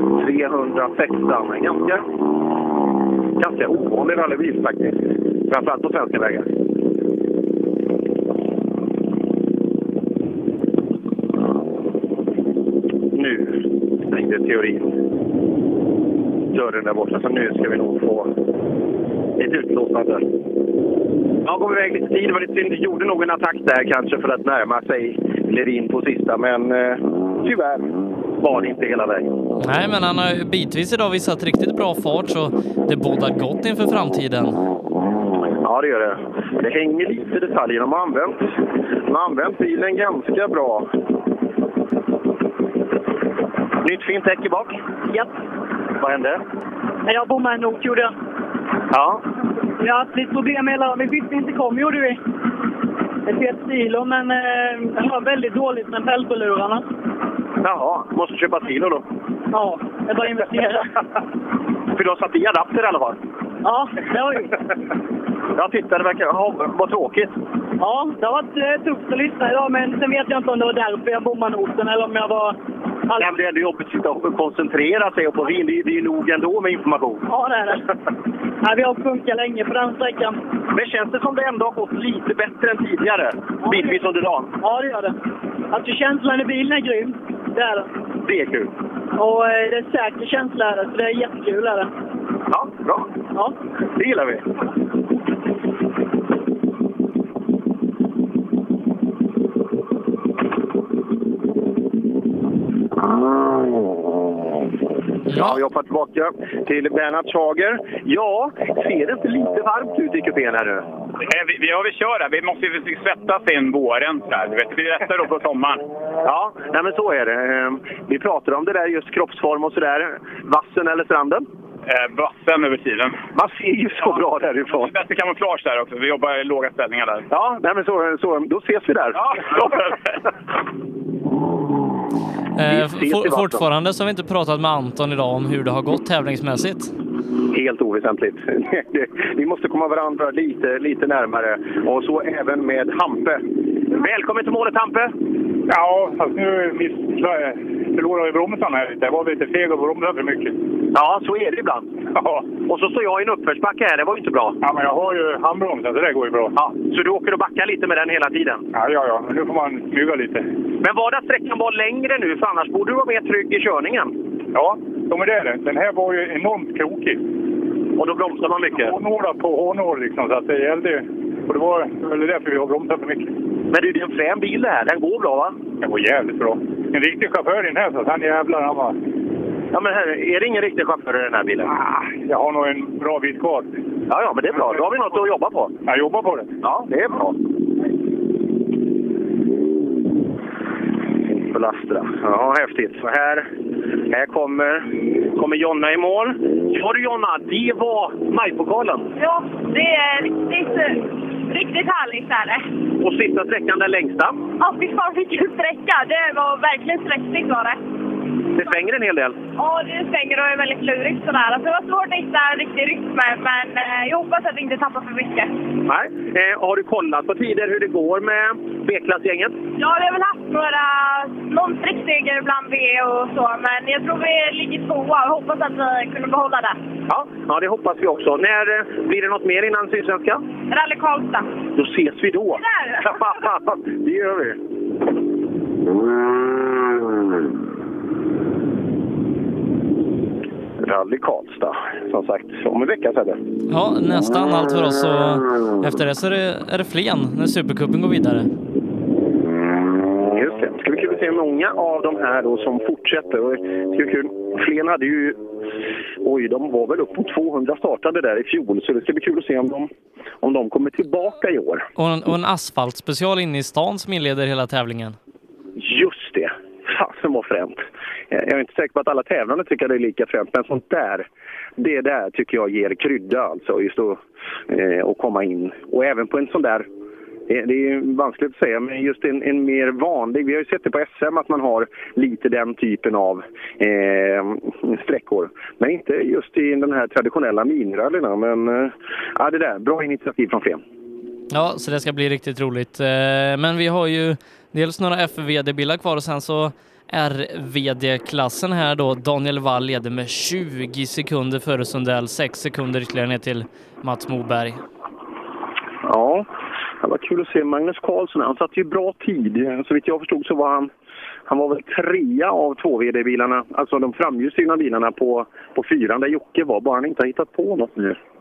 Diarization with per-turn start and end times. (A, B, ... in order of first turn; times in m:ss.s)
0:00.1-0:02.0 A
0:03.4-0:04.9 A
0:05.5-0:06.4 A
0:13.1-0:14.9 A
0:16.5-0:18.3 A
0:19.4-0:20.2 A
0:21.4-0:29.3 A
0:29.6-0:34.6 B
0:35.6-0:38.4 A
0:39.1-0:40.9 A
0:43.8-0:44.8 A
0:46.0-0:46.4 A
0:47.0-0:48.1 C
0:48.9-0:49.2 A
0:49.8-0:52.2 C
0:53.2-0:56.8 C
0:57.6-0:59.0 A
0:59.5-1:00.9 C
1:01.9-1:03.2 A
1:03.6-1:04.5 C
1:05.5-1:07.3 A
1:07.8-1:12.6 C
1:13.2-1:17.2 A
1:17.3-1:17.8 C
1:18.6-1:20.4 C
1:20.7-1:24.5 A
1:23.6-1:24.0 C
1:24.6-1:25.2 C
1:25.7-1:27.9 C
1:28.2-1:28.7 A
1:29.2-1:31.9 C
1:32.5-1:33.1 A
1:34.0-1:34.4 A
1:45.3-1:45.6 B
1:45.3-1:50.9 A
1:51.2-1:55.8 D
1:56.2-2:01.4 A
2:01.8-2:03.2 D
2:03.4-2:04.9 A
2:04.7-2:07.2 D
2:07.3-2:09.6 A
2:12.6-2:16.9 B
2:12.6-2:13.6 A
2:17.5-2:25.1 A
2:25.7-2:30.6 E
2:30.9-2:31.9 A
2:32.1-2:32.5 E
2:32.6-2:34.6 A
2:34.6-2:36.6 E
2:36.6-2:38.6 A
2:38.7-2:40.5 E
2:40.8-2:44.1 A
2:44.5-2:47.2 E
2:48.0-2:49.0 A
2:48.8-2:53.3 E
2:53.7-2:55.5 A
2:55.8-2:59.0 E
2:59.7-3:01.7 A
3:01.7-3:03.7 E
3:04.1-3:05.7 A
3:05.8-3:06.5 E
3:06.6-3:07.3 A
3:11.3-3:13.5 A
3:14.1-3:19.1 A
3:19.2-3:22.6 F
3:23.0-3:24.4 A
3:24.6-3:27.8 F
3:28.5-3:29.4 A
3:29.6-3:35.5 F
3:35.8-3:39.5 A
3:39.8-3:46.8 F
3:47.1-3:50.4 A
3:50.7-3:51.5 F
3:51.8-3:54.6 A
3:52.6-3:53.0 F
4:00.8-4:03.4 A
4:03.7-4:08.5 B
4:10.3-4:15.4 A
4:16.2-4:19.9 A
4:20.4-4:21.8 A
4:22.0-4:25.2 B
4:25.8-4:36.9 A
4:37.5-4:50.8 A
4:51.5-5:04.8 B
5:06.0-5:06.5 A
5:07.0-5:10.9 A
5:11.5-5:18.2 A